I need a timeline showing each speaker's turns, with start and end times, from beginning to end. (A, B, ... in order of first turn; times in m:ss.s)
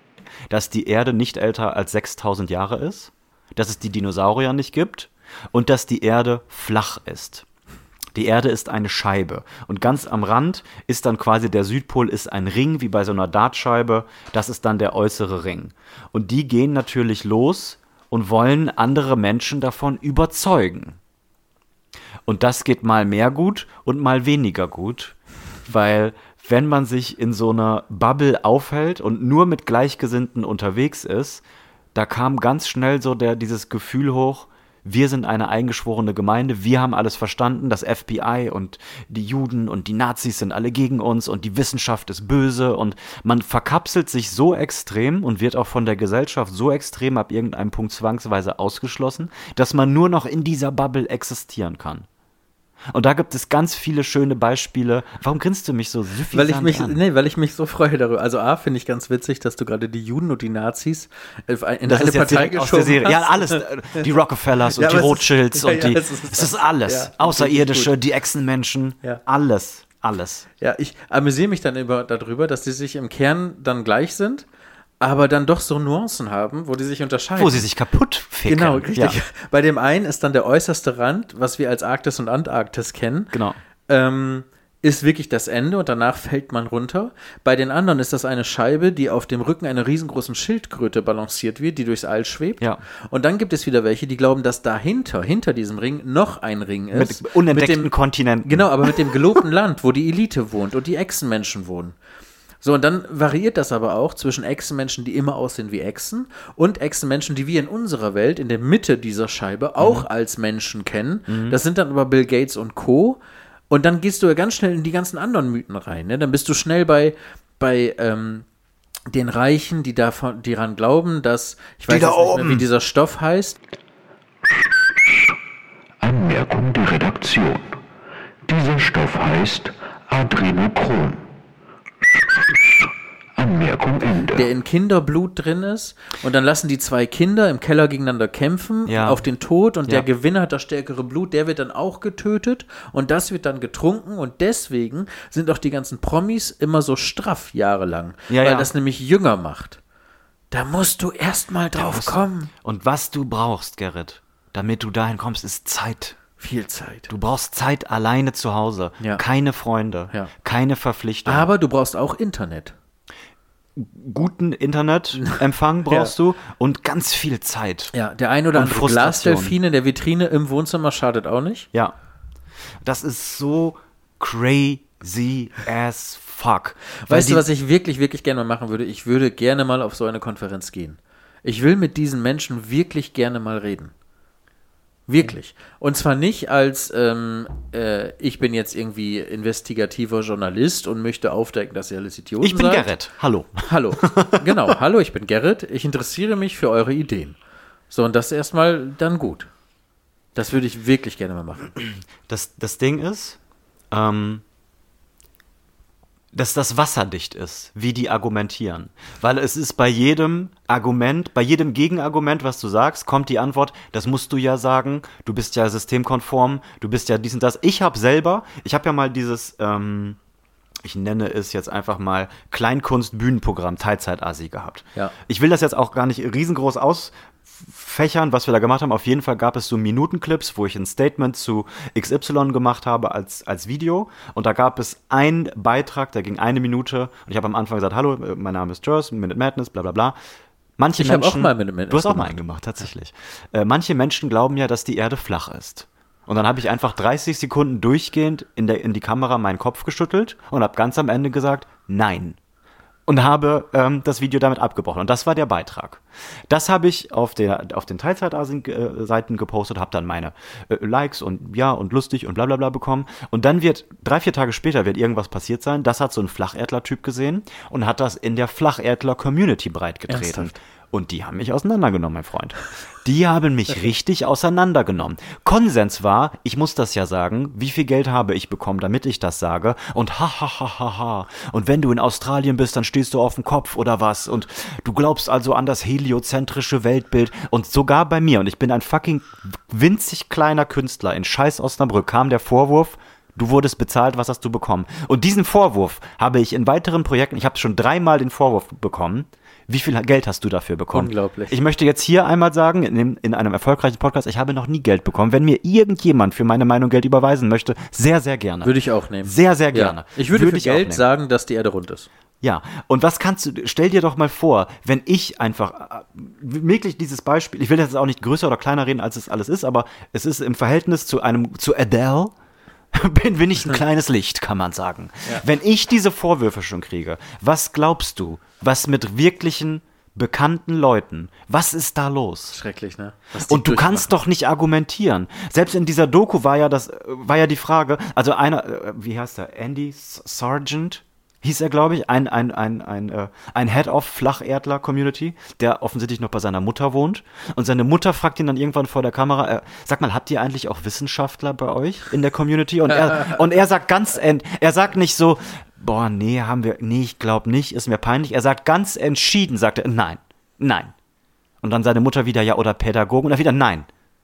0:00.5-0:07.4 A
0:08.1-0:21.0 A
0:22.2-0:52.0 A
0:52.9-0:57.0 A
0:56.3-1:04.0 B
1:01.9-1:10.4 A
1:04.7-1:07.9 B
1:10.6-1:14.4 B
1:15.0-1:17.7 B
1:17.4-1:19.2 A
1:18.4-1:23.4 B
1:23.3-1:23.6 A
1:23.9-1:37.9 B
1:36.9-1:39.2 A
1:38.4-1:42.0 B
1:42.6-1:58.4 B
1:49.8-1:50.1 A
1:51.3-1:51.6 A
1:59.1-2:03.6 B
2:01.9-2:02.6 A
2:04.4-2:05.3 C
2:06.0-2:07.8 C
2:08.4-2:11.2 C
2:12.0-2:14.5 C
2:14.3-2:29.8 B
2:18.8-2:19.2 A
2:28.3-2:28.7 A
2:30.5-2:32.5 B
2:31.7-2:36.2 A
2:36.4-2:37.1 B
2:37.1-2:41.5 A
2:41.2-2:42.7 B
2:43.8-2:47.9 A
2:47.9-2:51.7 B
2:48.5-2:49.6 A
2:52.8-2:57.4 A
2:57.0-3:03.9 B
3:05.1-3:12.9 B
3:12.4-3:14.7 A
3:13.6-3:17.4 B
3:17.9-3:19.5 B
3:20.3-3:21.7 B
3:22.2-3:23.4 A
3:23.9-3:24.4 A
3:26.3-3:40.2 A
3:40.8-4:00.2 A
4:00.8-4:12.4 A
4:01.0-4:02.4 B
4:13.1-5:11.0 A
4:30.1-4:30.6 B
5:00.9-5:01.6 B
5:08.6-5:12.1 B
5:12.4-5:22.3 A
5:22.9-5:32.6 A
5:32.5-5:34.1 B
5:33.4-6:00.9 A
5:52.9-5:53.4 B
6:01.6-6:03.9 A